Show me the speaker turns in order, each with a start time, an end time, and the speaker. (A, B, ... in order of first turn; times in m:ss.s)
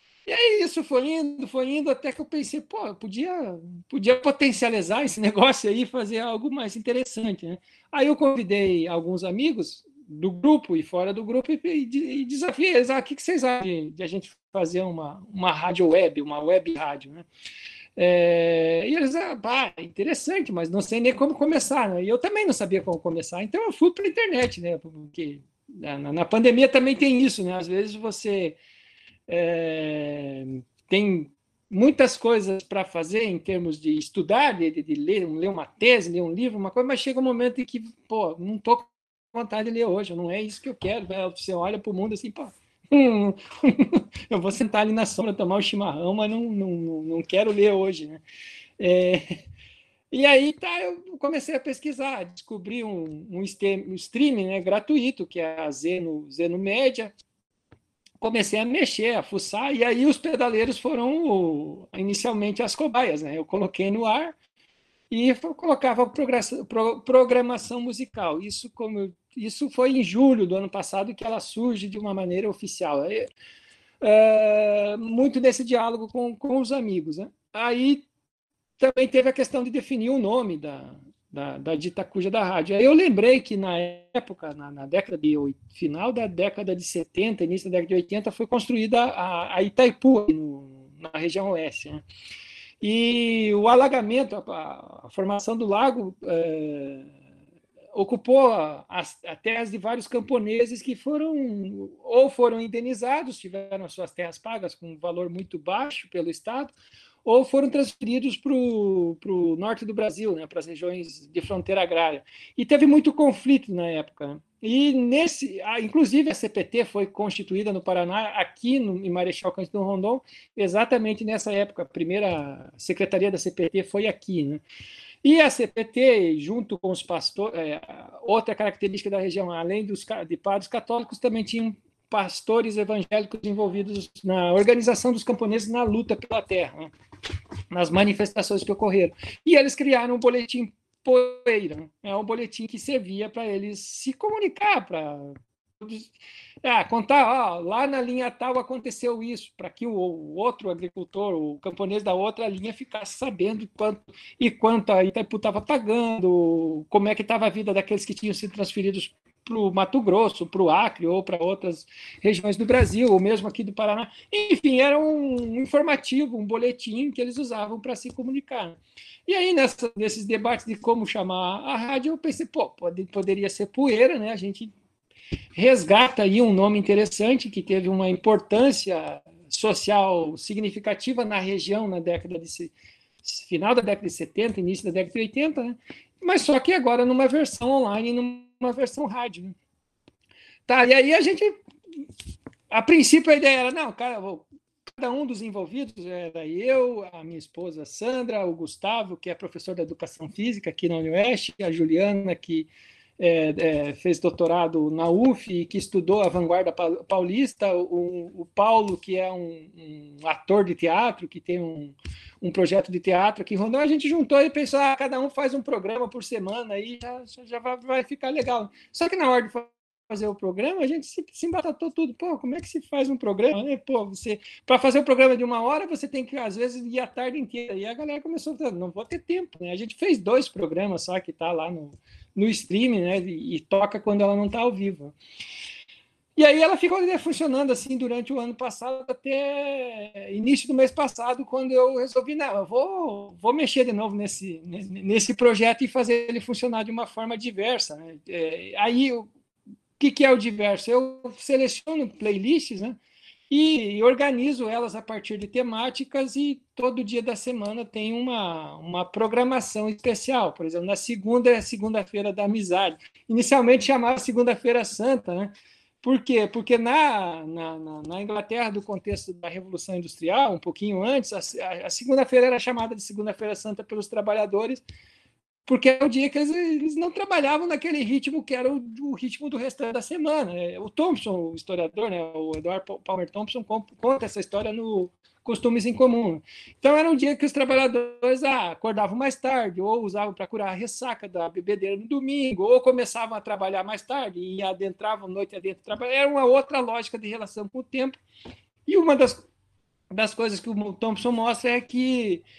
0:00.3-0:17.3 A
0:18.0-0:28.6 A
0:29.3-0:48.2 A
0:48.8-0:49.4 A
0:50.1-0:57.1 A
0:58.2-1:04.3 A
1:05.1-1:13.3 A
1:14.0-1:18.1 A
1:18.8-1:32.0 A
1:32.8-1:37.1 A
1:37.9-1:46.7 A
1:47.2-2:04.6 A
2:05.2-2:16.9 A
2:17.7-2:26.1 A
2:26.6-2:54.7 A
2:55.6-3:02.7 A
3:03.2-3:09.6 A
3:10.7-3:11.6 A
3:12.7-3:55.2 A
3:56.4-4:09.3 A
4:10.0-4:13.0 A
4:13.5-4:25.5 A
4:26.0-4:34.8 A
4:35.7-4:58.2 A
4:58.9-4:59.4 A
5:00.1-5:02.4 A